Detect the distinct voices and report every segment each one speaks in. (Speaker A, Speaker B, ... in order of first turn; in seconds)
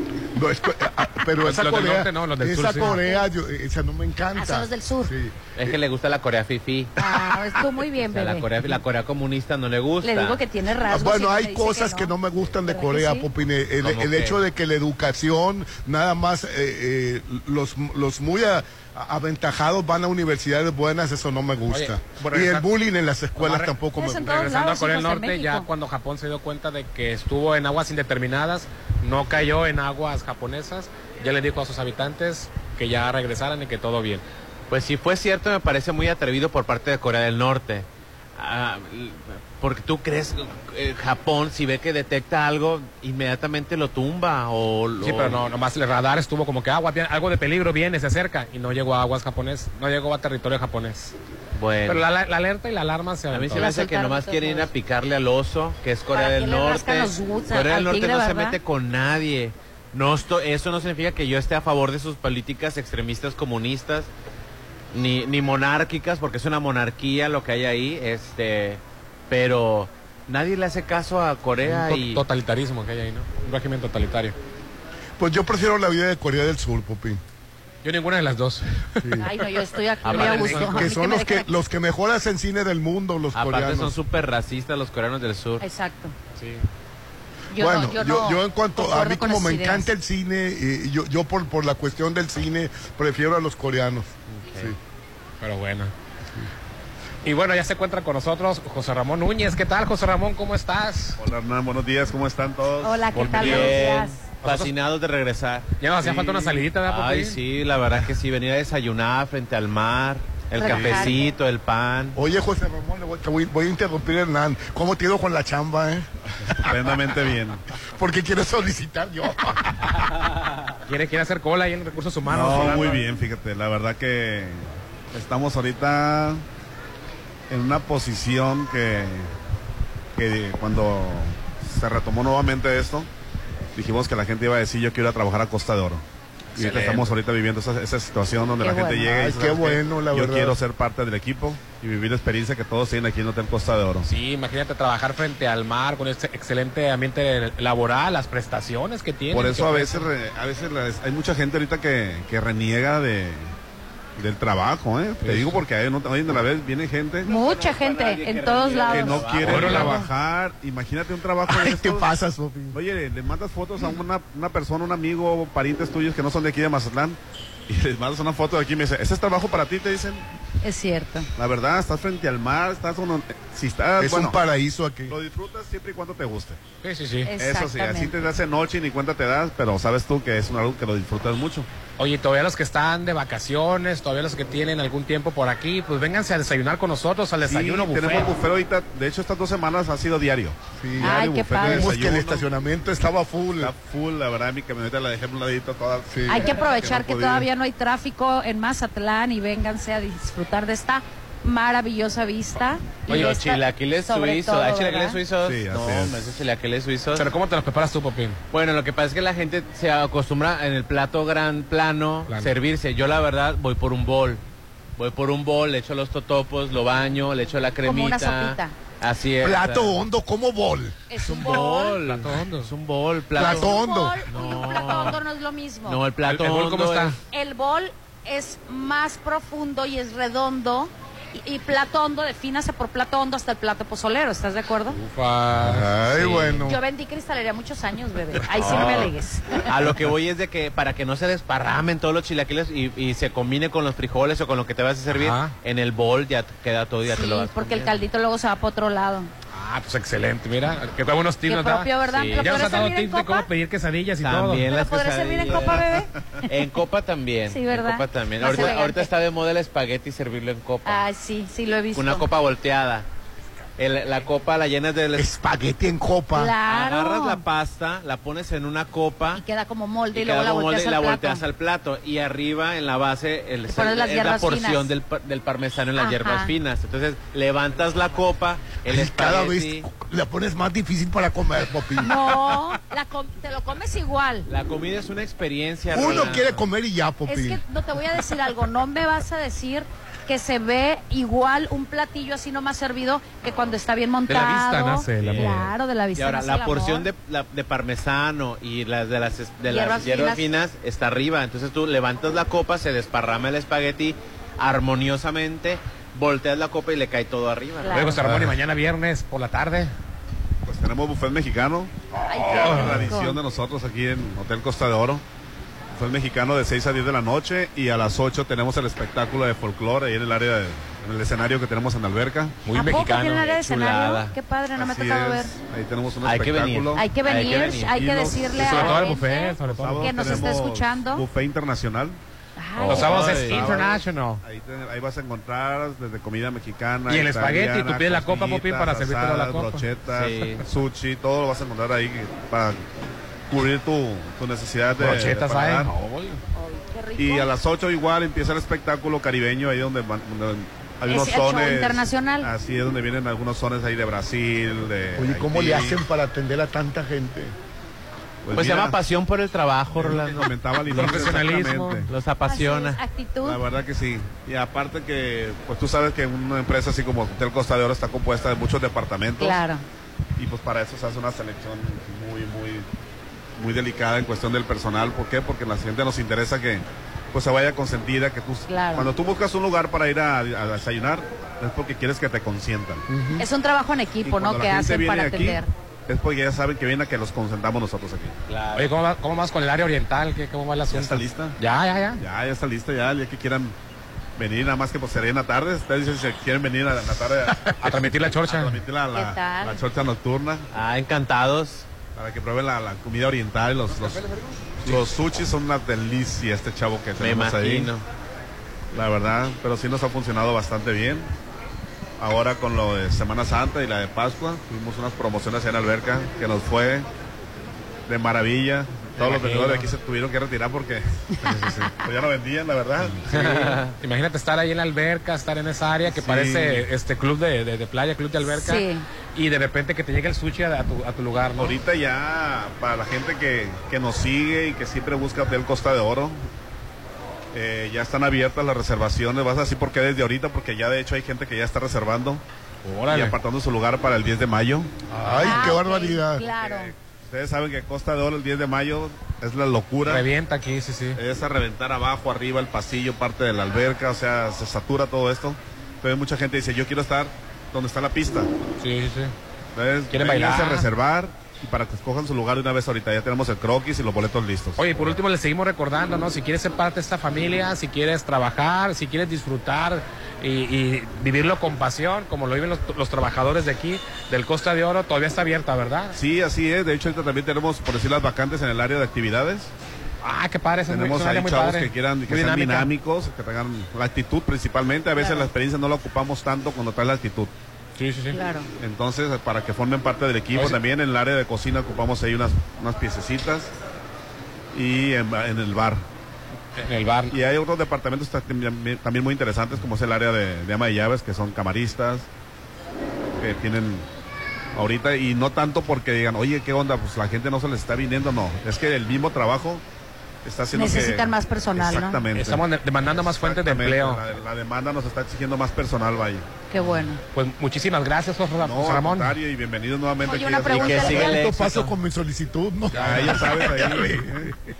Speaker A: 0.3-5.8, 10.8-24.4, 75.2-77.2, 79.0-79.3, 80.6-83.9, 87.5-94.8, 112.1-116.1, 116.6-116.9, 118.0-120.0, 139.1-140.6, 161.5-162.8, 174.0-175.2, 190.8-193.7, 196.1-196.5, 219.4-221.0, 223.3-224.2, 235.6-236.8, 265.1-266.5, 278.8-282.1, 285.9-287.6, 355.2-357.5, 445.1-446.4, 521.1-524.5
Speaker B: 1.4-3.0, 21.7-22.7, 23.4-34.2, 45.0-51.1, 51.9-53.7, 71.6-74.3, 77.8-79.2, 80.0-80.9, 86.4-86.6, 95.4-95.9, 97.2-101.2, 103.1-103.9, 104.4-104.7, 105.8-107.4, 120.9-123.0, 136.5-137.1, 144.0-150.1, 155.2-155.6, 159.4-160.1, 176.8-177.3, 182.0-188.3, 207.2-208.4, 212.3-212.5, 222.0-222.7, 226.2-227.2, 234.9-236.6, 245.1-245.5, 249.5-254.7, 294.3-295.5, 307.9-309.9, 312.5-313.1, 322.6-323.5, 328.6-330.5, 332.9-334.4, 337.1-339.9, 345.0-346.4, 360.9-362.1, 383.1-383.4, 388.7-392.2, 397.6-398.8, 419.1-419.9, 421.5-421.9, 423.2-428.8, 429.3-431.8, 442.8-443.4, 445.3-445.6, 450.1-451.2, 458.8-459.3, 460.1-460.9, 464.8-476.2, 480.2-482.9, 488.0-488.4, 496.8-497.3, 512.3-514.2, 517.3-519.3
Speaker C: 2.8-3.3, 4.3-5.1, 7.0-8.5, 10.0-13.3, 24.0-25.7, 53.5-54.7, 56.1-58.6, 79.2-81.5, 85.6-86.1, 87.5-89.9, 102.8-104.2, 110.5-111.2, 138.6-139.2, 157.2-159.3, 170.6-171.3, 177.3-178.2, 191.0-191.9, 196.3-205.2, 217.8-218.7, 221.1-222.0, 223.4-226.0, 227.3-235.0, 236.6-239.7, 247.1-249.3, 251.5-253.5, 254.7-256.1, 257.5-259.1, 260.8-262.2, 266.3-267.4, 269.4-271.4, 273.7-274.9, 276.0-276.5, 282.0-284.5, 287.2-297.1, 299.7-300.5, 307.8-308.1, 312.2-313.4, 322.7-325.5, 326.9-331.2, 332.6-333.3, 346.5-347.5, 351.1-352.5, 362.4-363.6, 369.4-369.8, 378.7-379.1, 383.4-385.7, 399.1-399.8, 428.5-429.0, 445.4-446.9, 485.2-485.5, 488.3-488.7, 510.7-512.2, 516.7-517.2, 520.2-521.5
Speaker D: 5.5-6.9, 8.0-10.4, 13.8-14.4, 34.7-45.4, 51.5-52.0, 53.3-64.1, 64.9-72.2, 80.0-80.8, 83.3-85.6, 103.2-112.2, 157.2-160.0, 203.1-207.2, 208.5-214.4, 215.0-219.9, 221.3-223.7, 224.3-225.2, 225.8-227.2, 238.6-239.1, 239.7-248.0, 252.1-252.8, 254.2-255.9, 256.5-261.0, 261.9-263.1, 263.8-265.3, 266.7-269.4, 270.1-279.9, 284.5-286.6, 295.1-308.3, 323.3-324.3, 326.2-328.5, 332.8-333.7, 340.1-340.6, 358.5-361.3, 362.1-363.0, 388.5-388.9, 400.7-401.9, 407.2-408.0, 423.3-423.9, 520.7-521.9
Speaker E: 101.2-103.3, 110.7-111.1, 116.4-117.6, 122.2-126.4, 127.5-129.3, 130.2-133.1, 133.7-136.0, 136.5-144.1, 149.3-153.5, 154.2-157.3, 158.9-162.1, 162.7-170.2, 171.3-174.4, 175.1-176.6, 177.4-181.7, 187.4-192.5, 193.6-197.5, 205.4-206.2, 255.6-256.0, 310.6-315.2, 315.9-322.6, 324.7-327.0, 327.9-332.2, 332.9-342.9, 343.5-345.9, 347.2-356.0, 358.4-359.0, 359.9-362.1, 363.4-369.6, 370.4-372.9, 373.6-383.0, 384.2-388.3, 390.9-391.6, 392.2-393.7, 394.4-400.7, 402.1-404.2, 404.8-407.9, 408.9-411.3, 412.2-417.1, 418.1-421.0, 421.9-423.4, 426.1-426.9, 431.6-436.4, 437.5-442.4, 443.1-444.9, 446.4-450.2, 451.1-458.5, 459.7-464.9, 476.1-479.7, 480.9-487.5, 488.8-493.7, 494.7-496.0, 497.3-502.3, 503.4-504.1, 504.7-509.8, 510.4-516.5, 518.6-521.4, 522.9-524.5